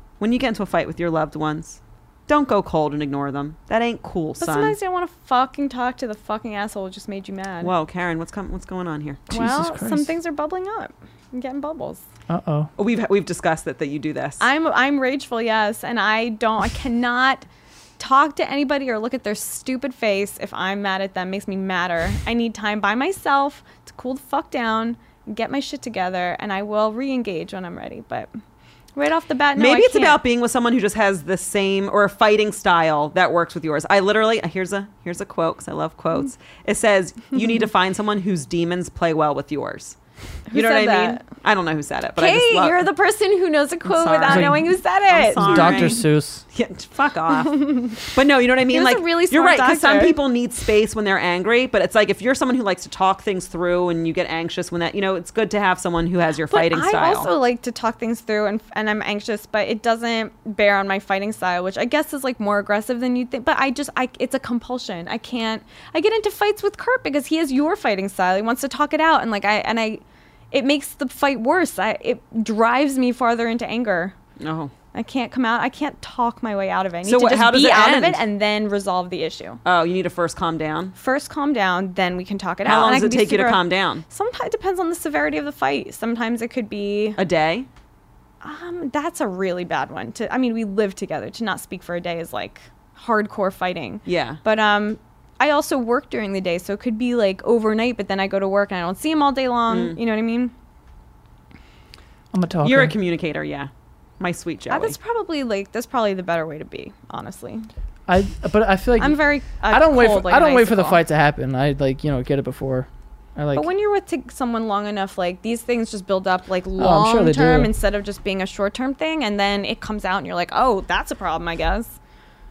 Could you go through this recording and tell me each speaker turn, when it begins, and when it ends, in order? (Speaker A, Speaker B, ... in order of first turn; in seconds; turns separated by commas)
Speaker A: 0.2-4.8, Speaker B: 4.4-7.7, Speaker A: 7.6-9.3, Speaker C: 9.3-10.1, Speaker B: 9.3-12.1, Speaker C: 12.3-12.7, Speaker A: 12.8-14.4, Speaker B: 14.4-17.4, Speaker B: 18.0-28.3, Speaker B: 28.9-30.2, Speaker A: 29.6-40.0, Speaker B: 40.5-41.2, Speaker A: 40.5-42.9, Speaker B: 42.2-46.0, Speaker A: 43.9-46.0, Speaker C: 44.3-44.6, Speaker C: 45.4-46.4, Speaker A: 46.5-57.3, Speaker B: 47.5-48.0, Speaker B: 48.7-50.2, Speaker B: 56.5-74.2, Speaker A: 74.4-74.7, Speaker B: 74.9-79.6, Speaker A: 77.1-78.2, Speaker A: 79.7-80.9, Speaker B: 81.0-87.2, Speaker A: 82.7-84.0, Speaker A: 87.2-87.7, Speaker B: 88.4-100.5, Speaker A: 94.1-94.4, Speaker A: 99.7-100.0, Speaker C: 102.3-103.0, Speaker A: 102.6-105.0, Speaker B: 104.7-107.7, Speaker C: 108.1-113.7, Speaker B: 109.0-111.0, Speaker B: 113.5-122.0, Speaker C: 116.8-117.7